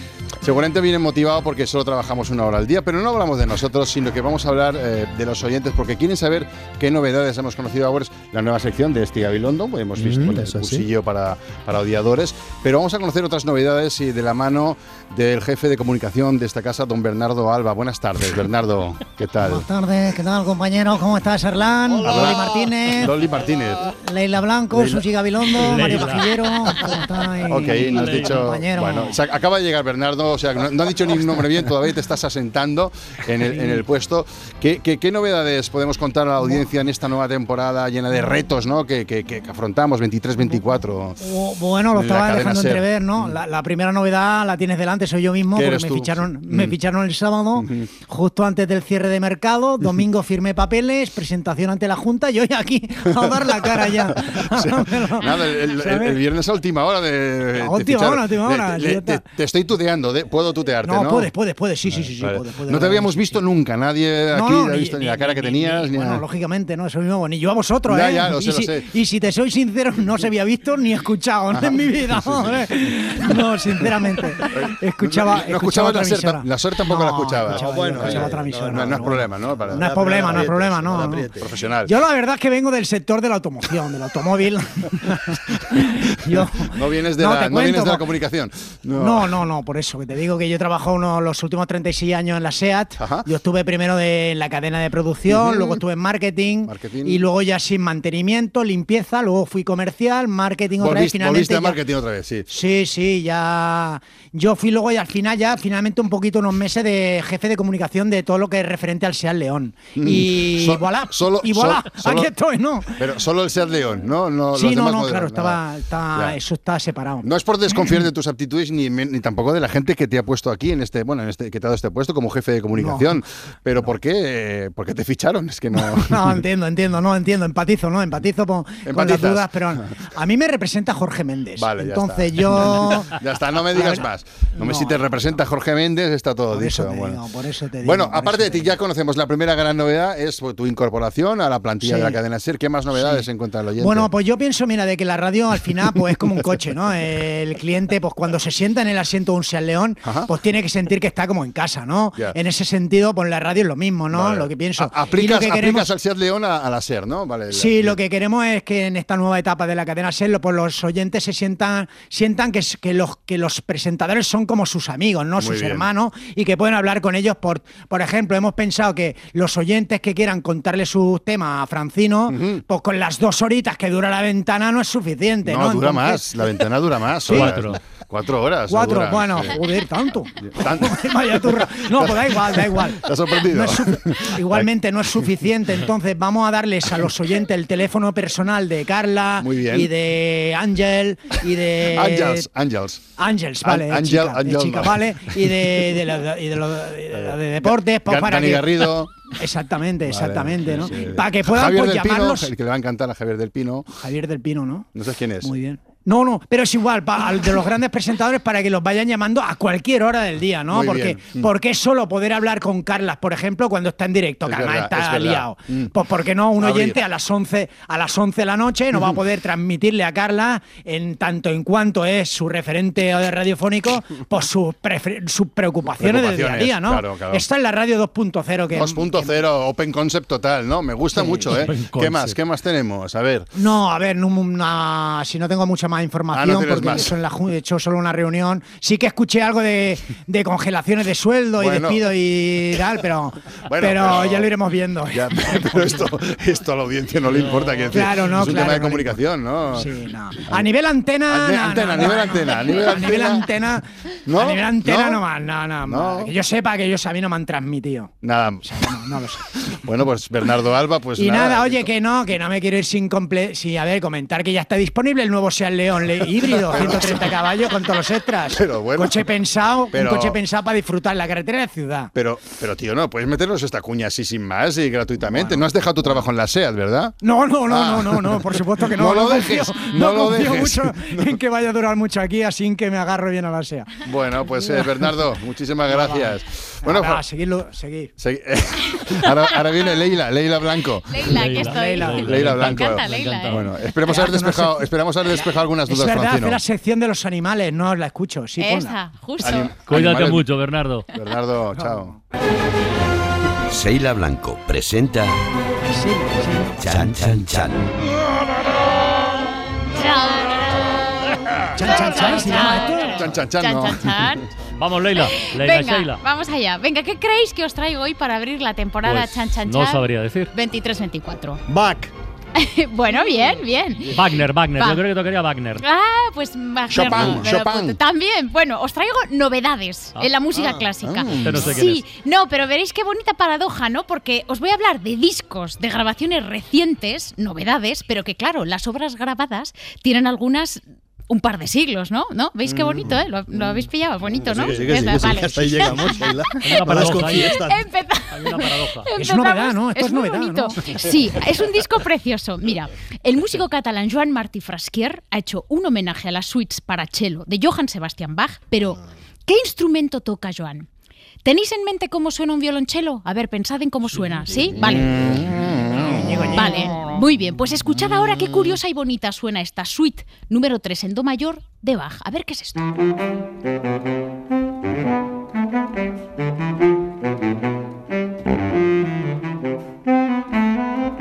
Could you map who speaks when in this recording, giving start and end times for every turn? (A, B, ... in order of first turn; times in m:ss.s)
0:00.4-0:19.6 A
0:10.0-0:10.8 B
0:19.4-0:23.1 C
0:22.0-0:23.8 A
0:24.0-0:29.2 C
0:24.7-0:25.0 A
0:25.6-0:26.3 D
0:27.5-0:41.2 A
0:27.9-0:28.3 D
0:33.4-0:33.8 C
0:41.2-0:56.2 C
0:41.9-0:43.3 A
0:45.6-0:46.7 A
0:47.6-0:47.9 A
0:54.1-1:01.3 A
0:57.6-0:59.2 C
1:00.8-1:03.4 C
1:01.9-1:06.2 A
1:04.3-1:21.3 C
1:07.9-1:08.9 A
1:14.5-1:19.9 A
1:17.5-1:21.5 B
1:21.4-1:21.9 A
1:21.8-1:28.0 C
1:26.6-1:29.3 A
1:28.9-1:41.8 C
1:33.0-1:33.2 A
1:35.3-1:35.8 A
1:36.7-1:37.2 A
1:40.8-1:42.4 A
1:42.5-1:53.0 C
1:50.0-1:52.3 A
1:53.0-1:55.6 A
1:54.5-1:58.0 C
1:57.2-2:06.4 A
2:02.8-2:03.2 C
2:05.8-2:13.1 C
2:08.8-2:09.5 A
2:11.6-2:17.2 A
2:13.7-2:14.0 C
2:14.6-2:15.4 C
2:16.5-2:18.8 C
2:17.8-2:24.1 A
2:21.8-2:22.2 C
2:22.9-2:23.2 C
2:23.8-2:35.9 C
2:30.0-2:30.3 A
2:34.1-2:38.0 A
2:37.5-2:56.3 C
2:45.4-2:45.9 A
2:52.3-2:52.6 A
2:55.4-2:59.5 A
2:57.3-2:57.6 C
2:57.3-2:57.8 D
2:58.7-3:12.5 C
3:00.4-3:04.7 A
3:09.4-3:09.9 A
3:11.9-3:13.0 A
3:13.2-3:22.5 C
3:13.6-3:15.0 A
3:17.1-3:19.1 A
3:20.1-3:23.9 A
3:24.0-3:24.9 C
3:24.9-3:25.5 A
3:25.4-3:49.4 C
3:30.7-3:31.5 A
3:34.4-3:35.9 A
3:36.6-3:37.0 A
3:46.0-3:47.4 A
3:48.7-3:53.5 A
3:51.1-3:51.5 C
3:51.5-3:52.4 D
3:53.5-4:06.1 C
3:56.3-3:57.1 A
4:01.6-4:02.0 A
4:03.6-4:04.5 A
4:05.1-4:09.9 A
4:07.8-4:09.2 C
4:09.7-4:18.1 C
4:11.3-4:13.4 A
4:14.3-4:15.2 A
4:15.8-4:16.3 A
4:18.2-4:18.6 A
4:18.6-4:19.5 C
4:19.7-4:21.9 A
4:21.2-4:32.1 C
4:26.6-4:27.4 A
4:28.5-4:29.2 A
4:29.9-4:30.4 A
4:32.1-4:37.2 A
4:37.2-4:43.9 C
4:37.7-4:41.3 A
4:44.0-4:47.2 A
4:45.9-4:48.1 C
4:48.2-4:51.2 A
4:51.1-4:53.6 E
4:51.3-4:53.7 D
4:51.6-4:52.7 C
4:52.2-4:56.6 A
4:54.0-4:54.9 C
4:55.8-4:59.0 C
4:58.6-4:59.7 E
4:59.4-5:00.4 A
4:59.8-5:01.1 D
5:01.1-5:02.1 A
5:01.7-5:02.1 C
5:03.7-5:05.4 F
5:05.9-5:07.1 C
5:06.8-5:07.7 F
5:09.9-5:11.0 E
5:11.7-5:13.2 C
5:11.8-5:14.4 E
5:13.1-5:14.4 A
5:14.7-5:16.2 D
5:15.2-5:21.6 E
5:19.0-5:20.5 D
5:21.7-5:22.1 B
5:22.6-5:24.2 E
5:24.1-5:25.8 D
5:24.7-5:25.0 E
5:25.8-5:46.6 E
5:26.9-5:28.0 A
5:30.6-5:31.7 A
5:31.3-5:32.1 D
5:42.6-5:43.2 B
5:44.4-5:45.0 A
5:44.5-5:47.8 B
5:46.6-5:47.7 D
5:47.3-6:00.9 E
5:48.3-5:49.0 D
5:49.1-5:50.8 C
6:01.4-6:05.2 E
6:05.2-6:06.1 A
6:05.9-6:06.9 C
6:06.5-6:12.8 E